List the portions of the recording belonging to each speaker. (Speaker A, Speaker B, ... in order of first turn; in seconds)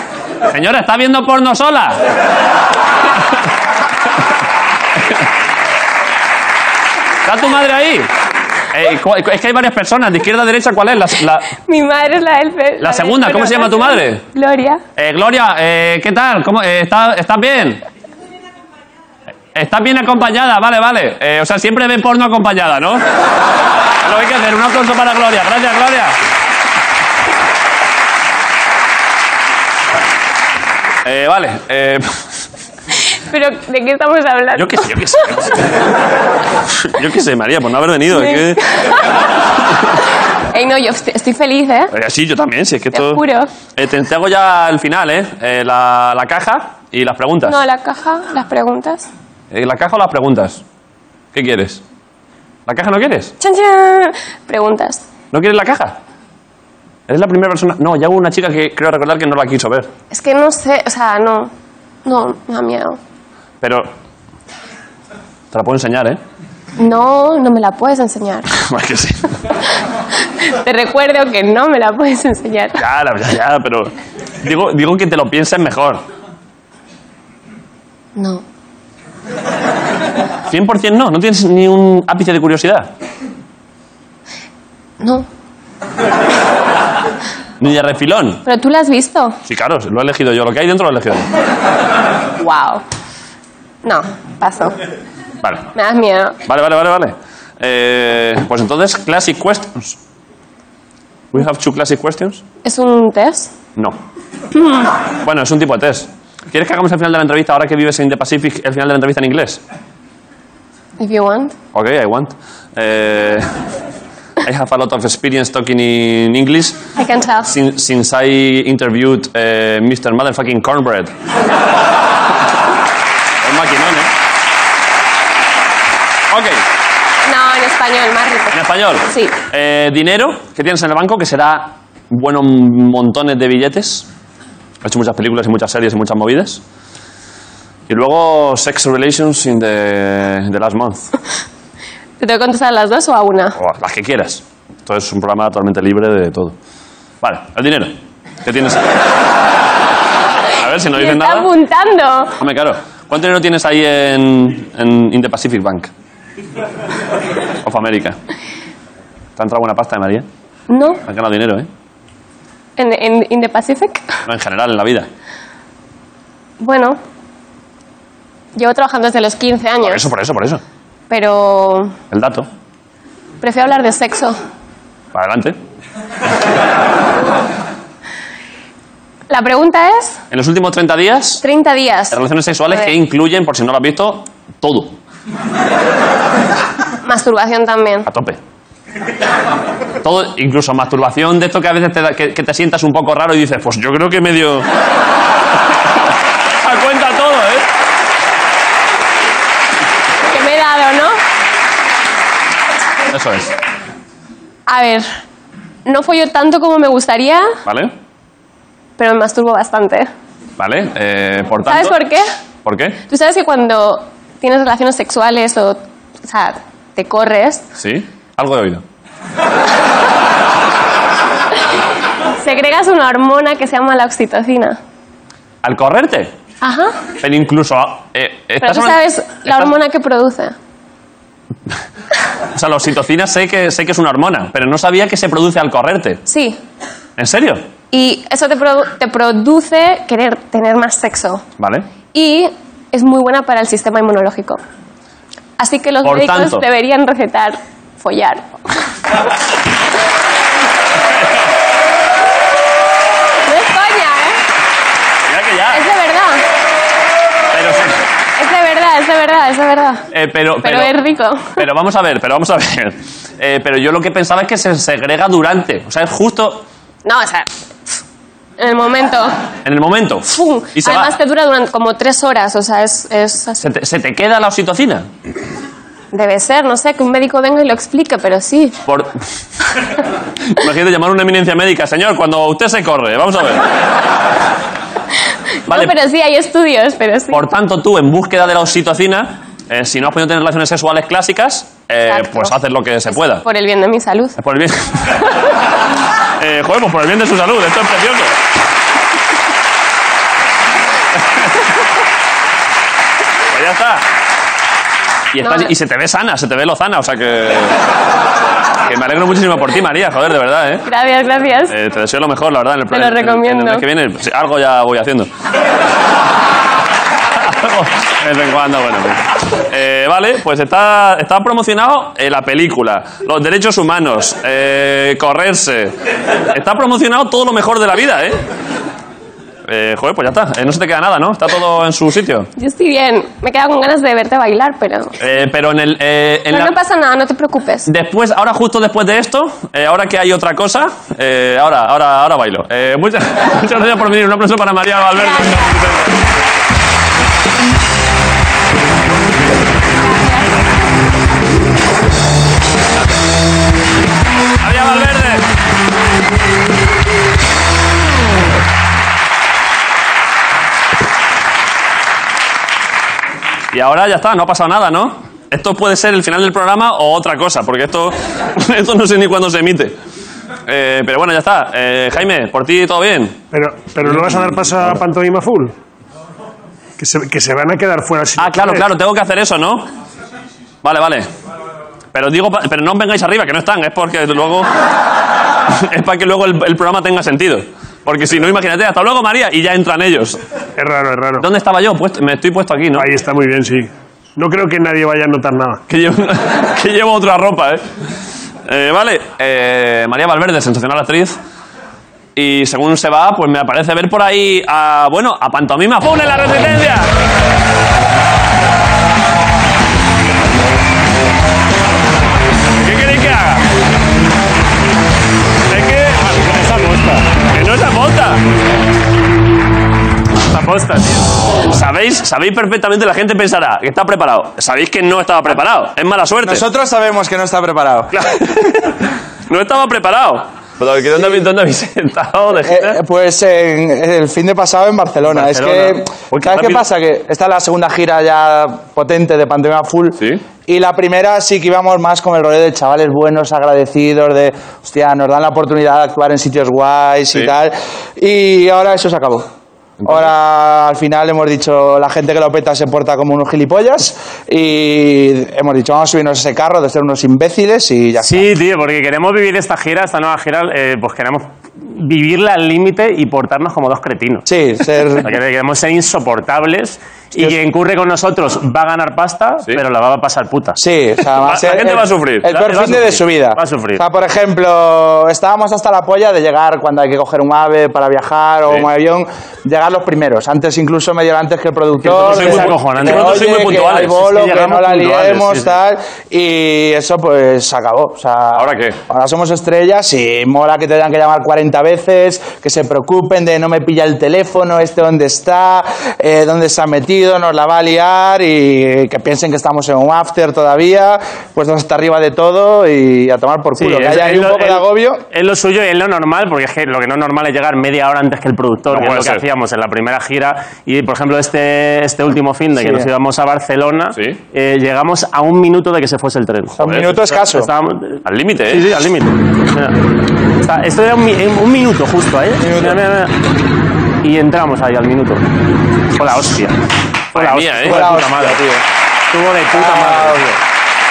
Speaker A: 0.5-2.0, 7.2-8.1, 8.7-11.5, 12.8-14.2, 15.0-17.8, 19.6-23.0, 24.0-26.2, 31.1-32.1, 34.6-35.7, 36.8-38.6, 41.9-43.2, 43.7-47.6, 49.5-50.6, 51.3-51.8, 52.7-53.3, 55.3-56.0, 57.1-59.9, 63.6-63.9, 65.5-66.2, 68.5-69.3, 72.8-76.0, 80.5-82.9, 87.6-88.4, 89.5-91.3, 96.5-100.0, 101.3-102.4, 105.2-109.6, 111.7-113.5, 114.4-116.8, 117.5-121.1, 123.4-124.1, 126.3-126.6, 128.5-134.1, 134.8-136.6, 137.9-141.1, 143.6-146.6, 147.2-148.8, 150.5-151.5, 152.4-155.9, 157.6-158.2, 159.4-160.3, 161.1-161.7, 164.3-165.1, 169.8-170.6, 172.1-172.5, 175.1-175.6, 180.3-181.4, 182.1-185.0, 188.1-188.4, 190.0-194.7, 196.6-197.7, 203.1-203.5, 207.7-207.9, 210.6-212.0, 212.7-213.0, 217.8-218.8, 225.6-226.3, 227.2-229.7, 232.6-236.2, 237.2-237.6, 241.6-241.9, 246.1-246.6, 255.2-255.8, 257.5-258.0, 260.1-260.9, 261.6-266.6, 269.6-271.1, 273.6-275.1, 278.9-279.1, 280.6-283.6, 285.7-285.9, 287.3-293.4, 294.4-295.2, 296.4-298.4, 303.5-304.1, 305.3-307.8, 308.9-310.9, 311.7-315.3, 317.4-325.9, 326.5-328.4, 329.7-332.5, 335.2-336.7, 337.9-346.1, 354.6-355.4, 363.7-370.0, 370.7-373.4, 374.1-374.6, 378.4-379.9, 380.8-381.3, 382.1-384.7, 385.7-390.4, 391.4-393.1, 395.9-397.9, 398.7-401.4, 402.4-407.1, 412.8-413.6, 415.7-416.4, 417.5-418.4, 421.7-426.6, 428.1-428.9, 429.5-433.0, 436.3-436.8, 450.0-450.3, 471.4-472.5, 482.1-484.1, 488.6-489.0, 508.9-509.4, 514.1-514.4, 518.2-518.9, 527.3-528.1
Speaker B: 11.6-14.8, 33.3-35.0, 38.1-39.1, 40.5-41.9, 42.9-43.5, 47.5-49.1, 53.4-55.0, 60.1-61.5, 62.0-63.0, 66.8-68.5, 70.4-72.8, 78.2-78.4, 85.0-85.3, 88.5-89.4, 92.4-92.8, 93.8-94.8, 95.8-96.4, 102.6-103.5, 104.5-104.9, 111.0-111.5, 117.0-117.5, 127.2-129.3, 142.2-143.6, 150.9-152.3, 160.7-161.0, 162.8-164.1, 166.6-167.0, 168.6-170.0, 171.1-171.9, 173.4-174.4, 179.3-180.2, 181.4-182.9, 187.0-188.1, 200.3-201.2, 204.7-205.1, 205.9-207.5, 209.0-210.1, 211.7-212.3, 213.1-217.7, 222.4-224.8, 226.6-226.9, 228.6-230.6, 236.3-236.6, 237.9-241.4, 242.1-244.6, 245.6-248.5, 253.5-254.4, 255.7-256.4, 258.4-260.1, 260.6-261.6, 267.1-267.9, 268.6-269.4, 270.3-273.6, 276.1-278.8, 285.7-287.4, 292.1-292.5, 293.4-294.4, 305.4-305.7, 310.9-311.7, 312.9-313.9, 332.6-335.2, 336.5-337.9, 345.2-345.9, 350.0-350.6
Speaker C: 373.5-375.7, 377.0-378.9, 390.8-391.5, 392.9-395.8
Speaker D: 416.2-417.3, 420.4-421.2, 435.3-435.9, 458.2-464.5, 465.2-470.8, 472.5-474.0, 482.0-485.7, 503.8-504.8, 505.3-520.0, 520.6-523.3, 524.2-525.5, 526.1-526.8, 527.3-528.6, 529.3-530.6
Speaker E: 426.4-428.1, 432.6-449.5, 450.1-458.5, 464.5-465.3, 470.8-505.2, 512.8-513.1, 516.8-517.7, 522.6-523.0, 527.9-528.8, 529.7-530.5